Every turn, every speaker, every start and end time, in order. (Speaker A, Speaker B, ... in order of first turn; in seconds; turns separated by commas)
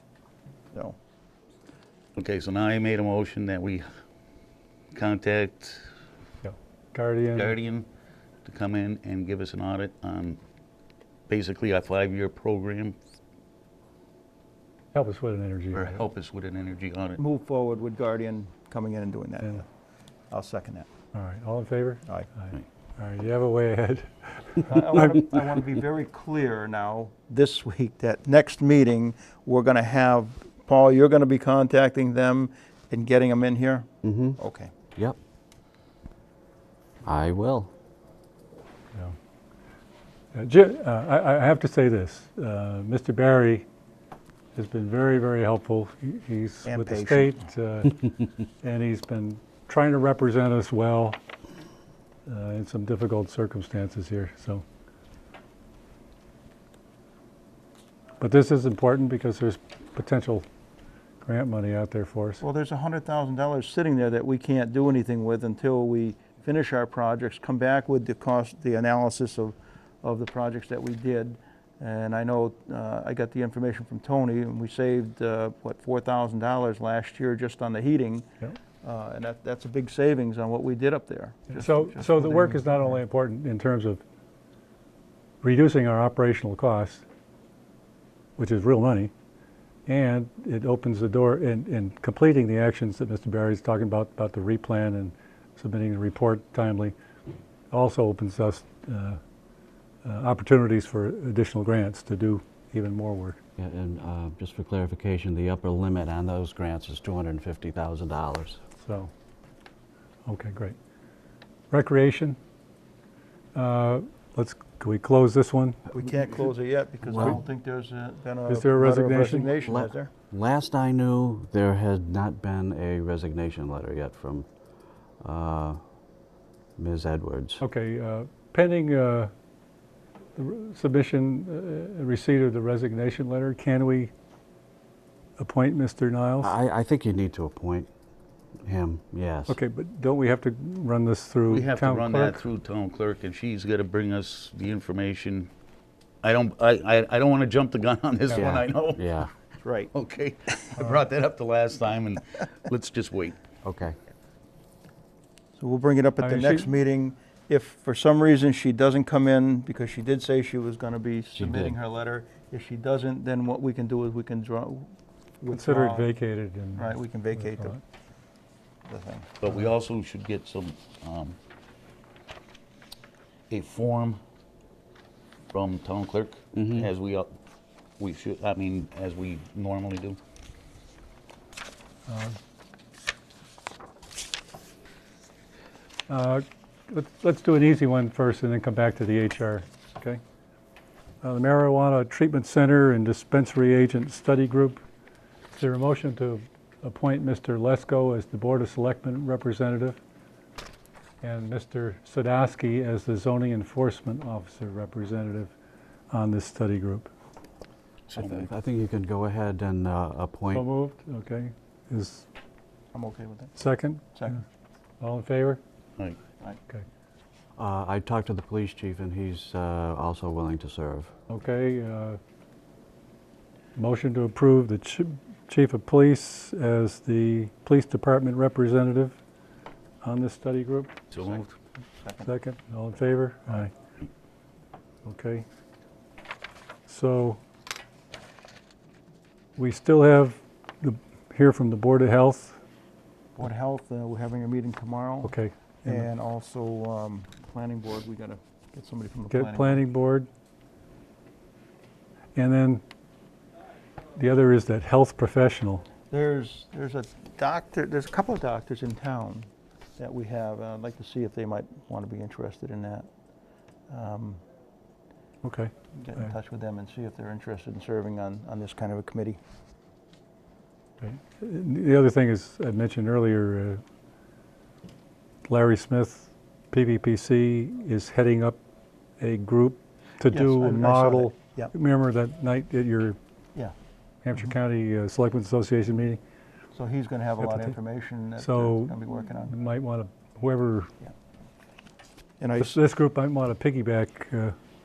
Speaker A: 2.1-3.9, Speaker A: 4.9-5.9, Speaker B: 6.4-7.5, Speaker A: 7.3-7.8, Speaker A: 8.4-10.4, Speaker A: 11.3-13.0, Speaker B: 14.9-15.9, Speaker A: 15.7-17.2, Speaker C: 17.2-19.6, Speaker C: 20.3-20.9, Speaker B: 21.1-25.1, Speaker C: 24.6-34.7, Speaker D: 34.0-34.4, Speaker D: 37.0-37.7, Speaker B: 40.3-43.6, Speaker B: 44.5-51.2, Speaker C: 46.6-47.4, Speaker B: 52.2-54.6, Speaker B: 58.2-60.5, Speaker B: 61.2-62.4, Speaker C: 62.4-78.3, Speaker C: 78.8-83.0, Speaker B: 81.5-84.0, Speaker B: 85.4-87.0, Speaker B: 88.4-89.1, Speaker B: 89.8-97.0, Speaker B: 97.7-99.2, Speaker B: 100.0-103.4, Speaker D: 103.6-108.6, Speaker B: 108.8-109.1, Speaker B: 110.2-110.8, Speaker B: 111.7-112.4, Speaker B: 113.5-115.8, Speaker C: 115.9-120.1, Speaker D: 117.1-117.4, Speaker B: 118.5-119.5, Speaker D: 119.6-124.5, Speaker D: 125.2-125.8, Speaker D: 126.8-127.6, Speaker B: 127.6-129.3, Speaker B: 130.3-134.1, Speaker B: 135.4-136.5, Speaker D: 136.4-137.9, Speaker D: 138.6-139.6, Speaker B: 139.5-142.4, Speaker A: 141.5-145.5, Speaker A: 146.2-149.0, Speaker D: 148.3-149.3, Speaker C: 149.6-149.9, Speaker A: 149.9-153.4, Speaker D: 153.6-154.0, Speaker C: 155.6-164.9, Speaker B: 156.2-156.7, Speaker D: 161.4-161.8, Speaker C: 165.4-166.1, Speaker B: 165.5-167.8, Speaker C: 166.7-167.8, Speaker C: 168.8-169.3, Speaker A: 169.4-171.4, Speaker A: 173.5-174.2, Speaker A: 175.5-177.3, Speaker D: 176.6-176.8, Speaker A: 178.0-180.2, Speaker B: 182.1-182.4, Speaker B: 186.1-190.2, Speaker B: 191.2-194.8, Speaker B: 195.5-200.0, Speaker B: 201.2-205.5, Speaker B: 206.1-207.1, Speaker A: 208.1-208.5, Speaker D: 208.2-210.7, Speaker B: 210.5-212.2, Speaker C: 212.9-213.6, Speaker B: 213.6-214.4, Speaker C: 214.1-214.4, Speaker B: 215.0-215.6, Speaker D: 217.6-221.1, Speaker B: 221.3-222.2, Speaker B: 223.8-229.2, Speaker B: 230.0-230.9, Speaker A: 231.1-231.5, Speaker C: 232.0-232.3, Speaker B: 232.2-233.7, Speaker B: 235.0-235.4, Speaker B: 236.9-237.4, Speaker B: 239.6-242.6, Speaker C: 243.4-245.3, Speaker B: 245.2-246.1, Speaker C: 245.8-249.8, Speaker B: 249.3-250.3, Speaker B: 252.3-252.8, Speaker B: 254.2-255.8, Speaker C: 256.1-263.1, Speaker C: 263.9-264.4, Speaker B: 265.4-266.3, Speaker C: 265.9-269.4, Speaker B: 271.0-273.8, Speaker B: 275.4-278.6, Speaker B: 279.2-283.2, Speaker C: 280.3-281.7, Speaker B: 284.2-286.2, Speaker C: 286.7-289.6, Speaker B: 287.4-287.7, Speaker B: 288.4-290.9, Speaker C: 292.4-292.8, Speaker B: 292.6-294.6